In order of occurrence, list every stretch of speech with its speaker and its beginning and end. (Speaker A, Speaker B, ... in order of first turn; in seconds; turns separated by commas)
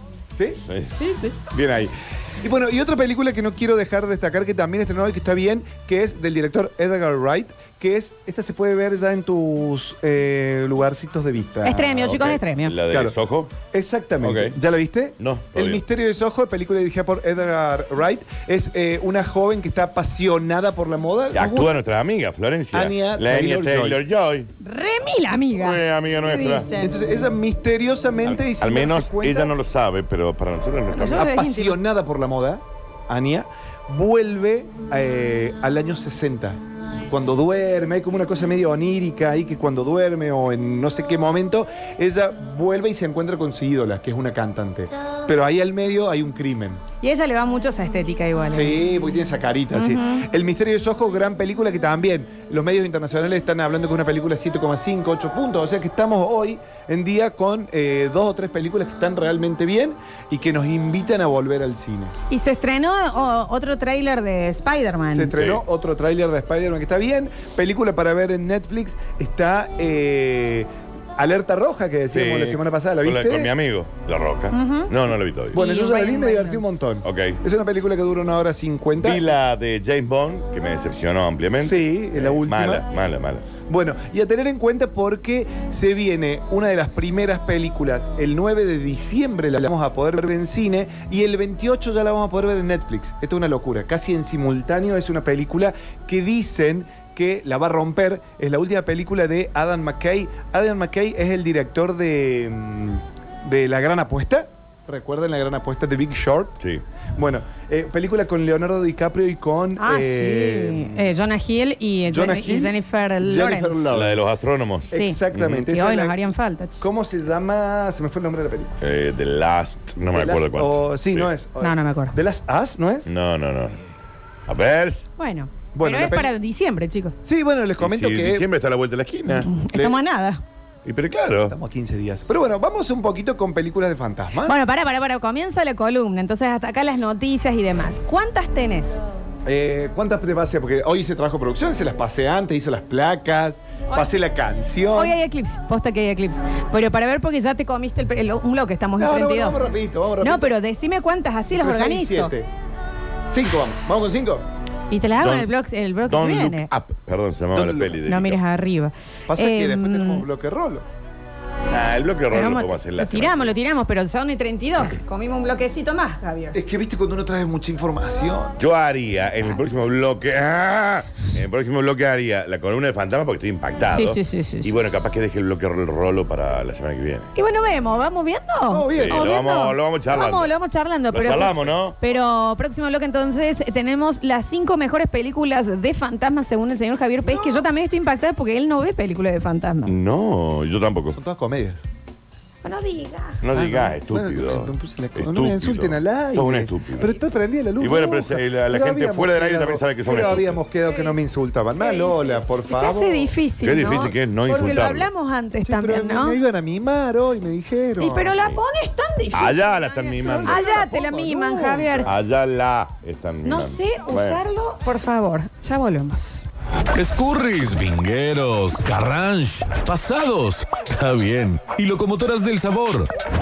Speaker A: 0.3-0.6, Speaker B: 0.7-0.9, Speaker C: 1.0-1.3, Speaker A: 1.5-21.8, Speaker C: 11.6-12.7, Speaker B: 12.6-13.5, Speaker B: 14.2-14.6, Speaker B: 15.2-15.8, Speaker B: 21.3-24.5, Speaker A: 22.7-24.0, Speaker C: 24.6-26.9, Speaker B: 25.5-26.7, Speaker A: 26.7-29.5, Speaker B: 28.2-31.2, Speaker C: 30.9-31.8, Speaker A: 31.1-46.8, Speaker C: 47.0-48.7, Speaker A: 48.5-62.1, Speaker C: 49.7-50.2, Speaker C: 62.3-65.3, Speaker A: 65.1-73.5, Speaker B: 65.3-65.6, Speaker B: 72.1-75.6, Speaker C: 74.5-74.9, Speaker A: 75.5-79.2, Speaker C: 75.5-76.8, Speaker B: 77.0-77.4, Speaker B: 79.0-83.5, Speaker A: 81.6-82.9, Speaker A: 83.7-106.5, Speaker A: 107.2-111.1, Speaker C: 109.8-113.9, Speaker A: 112.1-114.3, Speaker B: 113.9-115.7, Speaker A: 114.9-116.2, Speaker C: 114.9-116.8, Speaker A: 116.8-118.7, Speaker B: 118.8-121.3, Speaker A: 120.1-123.1, Speaker C: 121.6-122.2, Speaker B: 123.0-123.8, Speaker B: 124.5-125.0, Speaker C: 125.2-127.1, Speaker A: 125.7-126.3, Speaker A: 127.2-128.4, Speaker B: 127.8-129.5, Speaker C: 129.3-130.4, Speaker A: 129.7-130.0, Speaker B: 130.8-131.5, Speaker A: 131.4-134.6, Speaker C: 134.4-139.0, Speaker A: 139.4-145.2, Speaker C: 144.9-152.3, Speaker A: 149.0-150.5, Speaker A: 151.6-152.5, Speaker A: 153.3-154.4, Speaker C: 154.9-156.7, Speaker B: 155.2-155.5, Speaker B: 156.0-158.4, Speaker A: 157.5-158.0, Speaker C: 158.0-160.2, Speaker A: 159.3-160.8, Speaker B: 161.7-163.5, Speaker C: 162.3-166.6, Speaker A: 166.5-168.6, Speaker B: 168.6-177.3, Speaker C: 173.9-174.9, Speaker C: 177.3-189.9, Speaker A: 178.7-179.3, Speaker B: 178.9-180.5, Speaker B: 181.1-182.0, Speaker A: 187.2-187.7, Speaker B: 189.9-191.2, Speaker A: 191.1-191.8, Speaker C: 192.6-193.4, Speaker B: 193.4-197.1, Speaker A: 193.5-203.3, Speaker B: 197.8-200.6, Speaker C: 200.1-201.1, Speaker C: 201.8-206.4, Speaker B: 203.6-205.1, Speaker A: 205.6-208.4, Speaker C: 208.0-212.1, Speaker B: 209.3-210.7, Speaker A: 210.2-212.1, Speaker B: 212.0-214.4, Speaker C: 213.4-216.4, Speaker D: 216.9-223.1